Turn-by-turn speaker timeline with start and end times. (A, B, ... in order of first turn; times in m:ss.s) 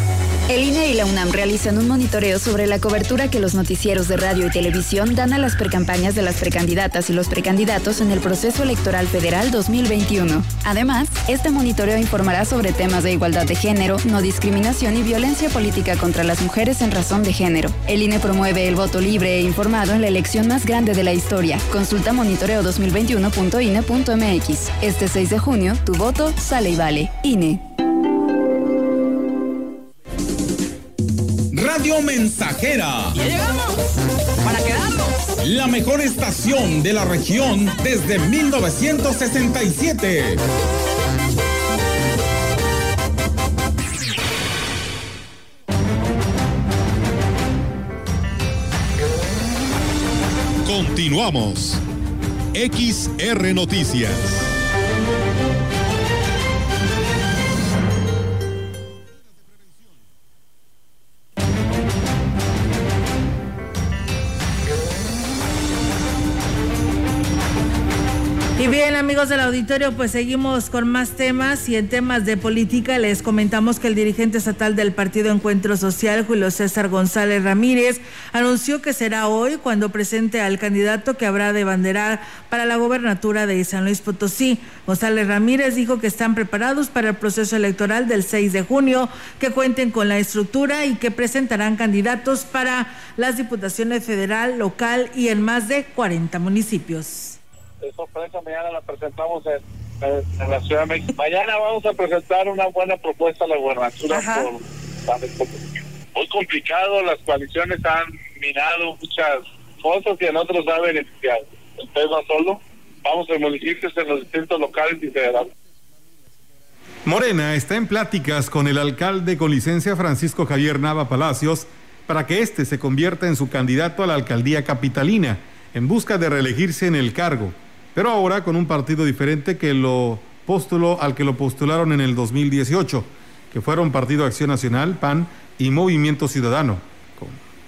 0:00.5-0:27.6 A
0:31.5-0:33.2 B
0:35.4-0:40.4 B
0:50.6-0:51.8 C
0:52.5-0:54.5 C
1:08.6-1:37.4 D
1:37.8-1:55.5 E
1:44.1-1:44.5 D
1:57.0-2:17.4 C